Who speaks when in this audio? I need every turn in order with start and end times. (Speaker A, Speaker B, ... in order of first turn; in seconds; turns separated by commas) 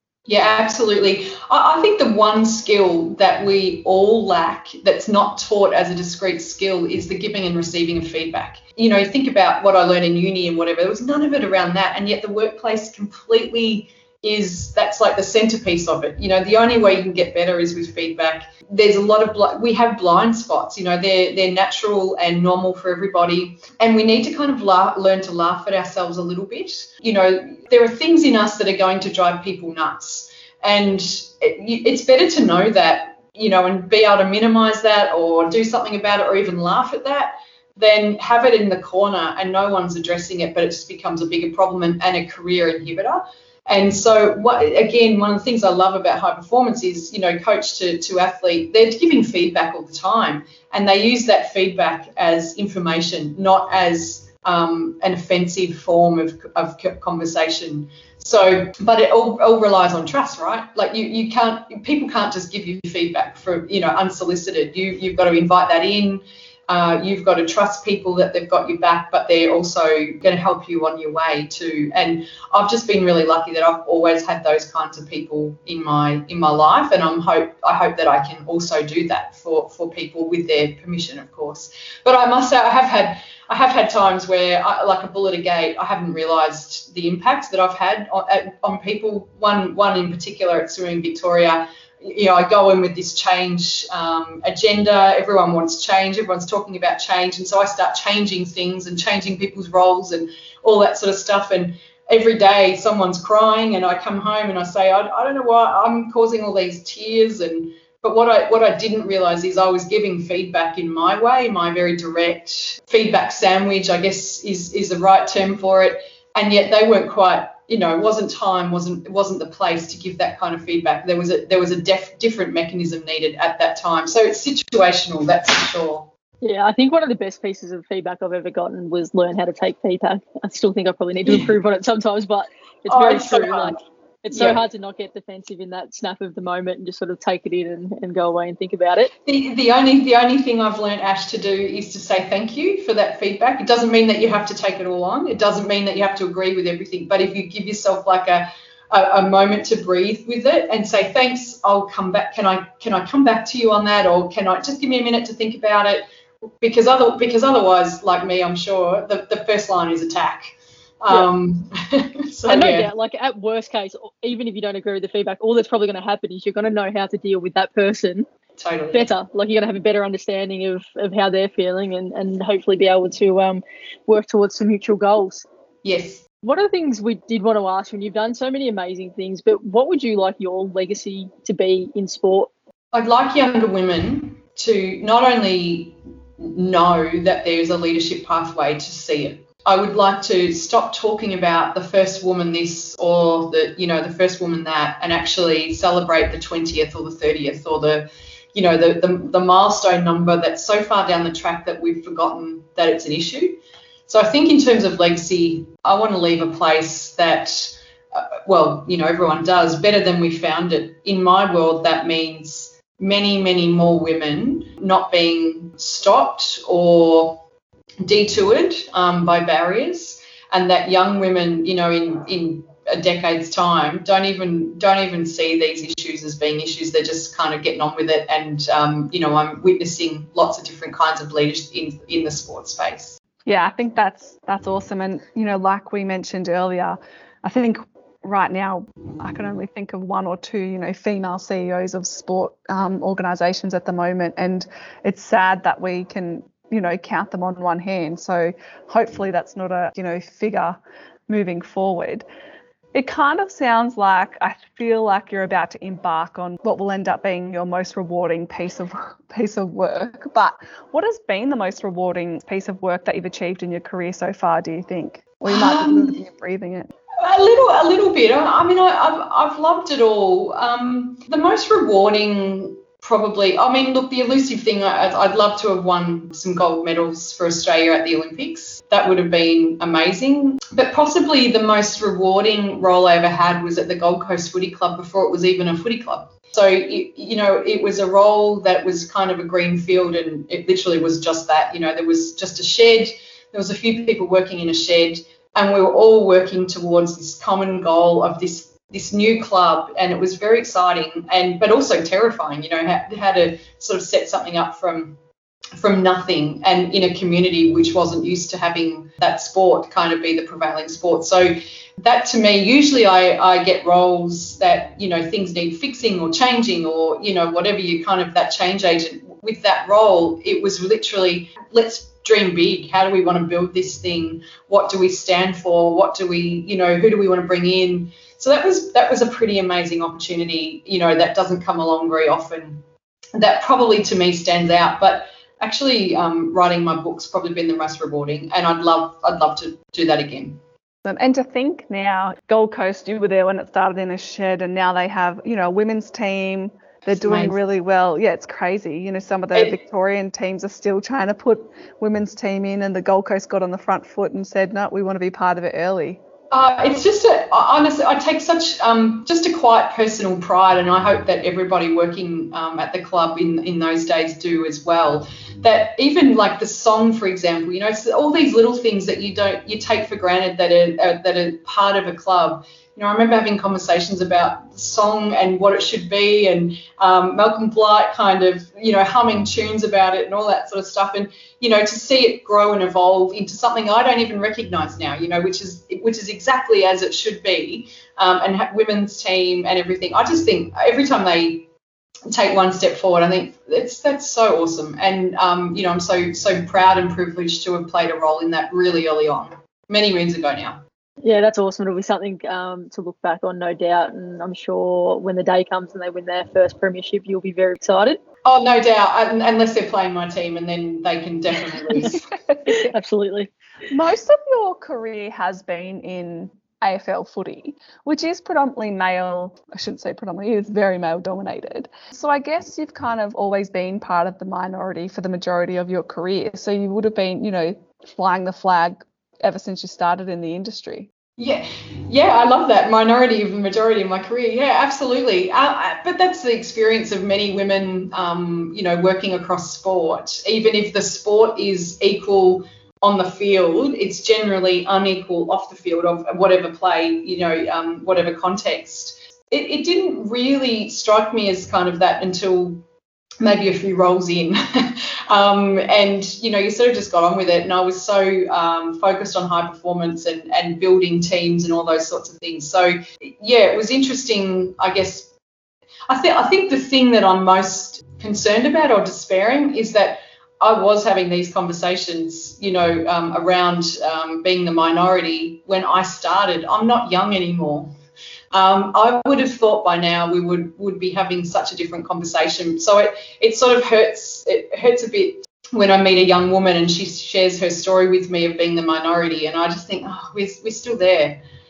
Speaker A: 0.3-126.1, Speaker B: 126.4-139.1, Speaker A: 131.2-131.5, Speaker A: 132.9-133.8, Speaker A: 134.3-134.6, Speaker A: 139.2-156.1, Speaker A: 156.6-162.9, Speaker B: 162.5-168.3, Speaker A: 168.6-169.1, Speaker B: 168.9-175.4, Speaker A: 175.8-176.2, Speaker B: 176.4-182.5, Speaker A: 182.9-217.4, Speaker A: 218.0-233.2, Speaker C: 233.4-252.2, Speaker C: 252.9-266.9, Speaker A: 265.4-266.2, Speaker A: 267.2-305.2, Speaker A: 305.8-332.8, Speaker A: 333.4-340.6, Speaker C: 341.0-356.2, Speaker A: 347.1-347.5, Speaker A: 349.5-349.8, Speaker A: 356.5-391.7, Speaker A: 392.3-400.8, Speaker B: 401.2-408.2, Speaker A: 408.4-412.2, Speaker B: 412.7-413.5, Speaker C: 413.9-431.1, Speaker A: 431.4-452.8, Speaker A: 453.4-465.3, Speaker A: 466.1-477.9, Speaker A: 478.5-491.4